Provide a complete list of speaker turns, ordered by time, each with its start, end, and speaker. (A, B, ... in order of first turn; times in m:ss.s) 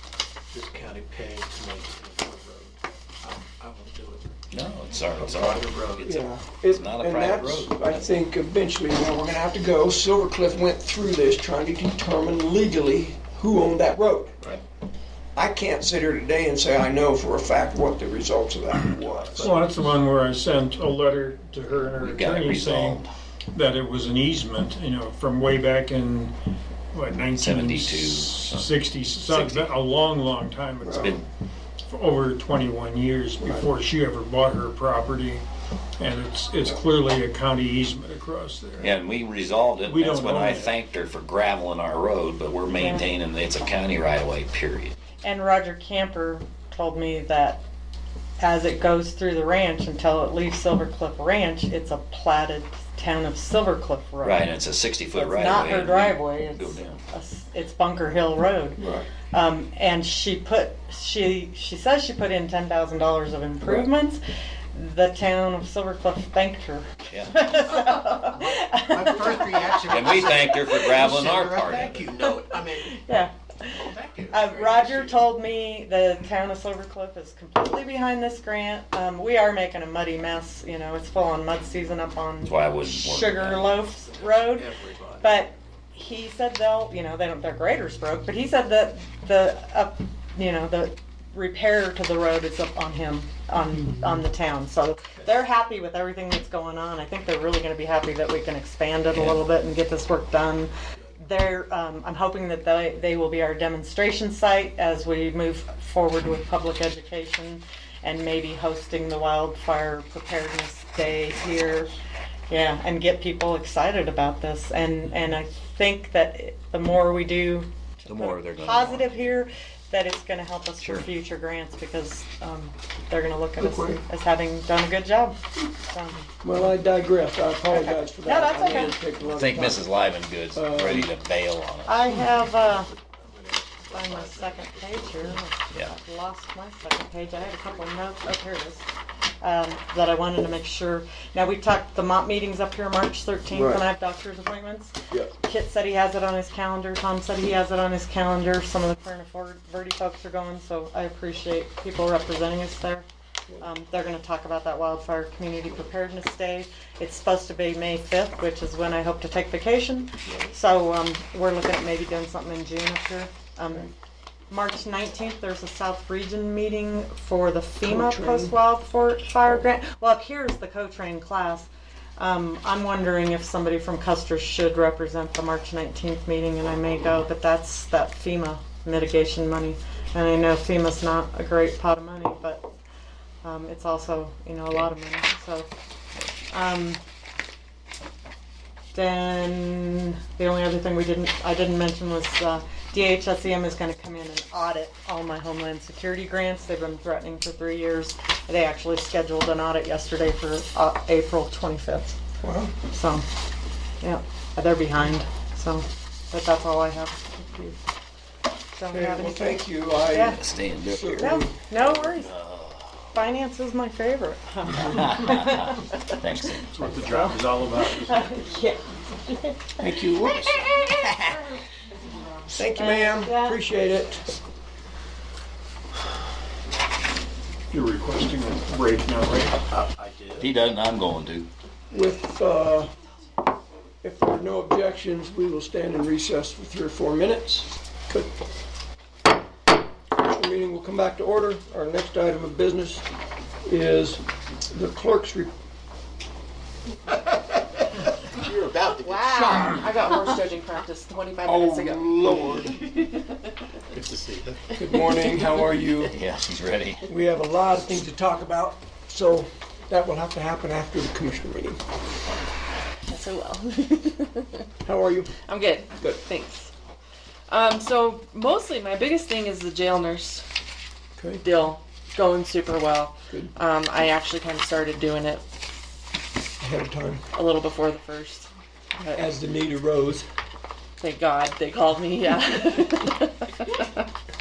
0:00.5-0:04.4 A
0:04.5-0:07.9 B
0:05.0-0:06.2 A
0:06.0-0:14.4 C
0:15.4-0:19.5 C
0:19.1-0:19.8 A
0:19.4-0:23.0 D
0:22.0-0:23.0 B
0:23.5-0:26.3 D
0:26.9-0:31.2 D
0:27.4-0:28.6 B
0:29.3-0:29.7 B
0:30.8-0:31.1 C
0:31.9-0:35.4 D
0:36.0-0:38.9 D
0:38.8-0:44.9 B
0:39.8-0:40.7 D
0:42.7-0:43.1 E
0:45.2-0:47.6 E
0:48.4-0:54.5 E
0:54.2-0:57.0 B
0:55.1-1:04.2 E
0:58.8-0:59.0 C
1:04.7-1:11.1 E
1:08.4-1:13.0 A
1:09.9-1:12.1 B
1:12.0-1:24.7 E
1:13.8-1:15.2 A
1:22.4-1:23.7 B
1:24.1-1:25.3 A
1:25.2-1:51.9 E
1:52.5-2:06.2 E
1:58.1-1:59.0 B
2:03.6-2:04.0 C
2:06.4-2:09.8 C
2:07.7-2:08.9 E
2:09.4-2:11.9 B
2:10.5-2:11.1 C
2:11.8-2:12.9 E
2:13.0-2:15.3 A
2:13.9-2:18.8 E
2:19.4-2:33.0 E
2:23.5-2:23.8 C
2:33.6-2:43.9 E
2:44.5-3:02.6 E
2:47.8-2:48.5 C
3:03.4-3:05.7 E
3:06.5-3:07.0 E
3:08.9-3:22.2 E
3:22.4-3:22.7 C
3:22.9-3:23.2 E
3:24.0-3:27.8 E
3:28.7-3:30.4 E
3:28.9-3:32.1 C
3:30.4-3:31.4 B
3:31.2-3:32.3 E
3:32.4-3:33.0 B
3:33.1-3:40.9 E
3:36.2-3:36.7 B
3:36.7-3:38.4 D
3:39.8-3:40.6 C
3:40.3-3:40.6 A
3:41.0-3:41.3 B
3:42.5-3:44.3 C
3:42.7-3:43.6 E
3:47.7-3:49.6 D
3:49.7-3:50.5 A
3:50.4-3:51.5 B
3:51.9-3:52.9 C
3:54.0-3:58.3 C
4:00.1-4:03.0 C
4:03.6-4:05.5 C
4:08.3-4:09.7 A
4:09.0-4:12.5 F
4:11.4-4:12.8 C
4:13.9-4:14.8 A
4:14.8-4:16.2 C
4:16.1-4:17.0 B
4:17.1-4:21.8 C
4:23.1-4:24.6 F
4:24.8-4:25.3 C
4:25.4-4:26.7 F
4:27.5-4:30.4 F
4:31.2-4:31.4 C
4:31.4-4:35.4 F
4:36.6-4:37.2 C
4:37.3-4:39.2 F
4:39.1-4:40.3 C
4:41.0-4:44.0 F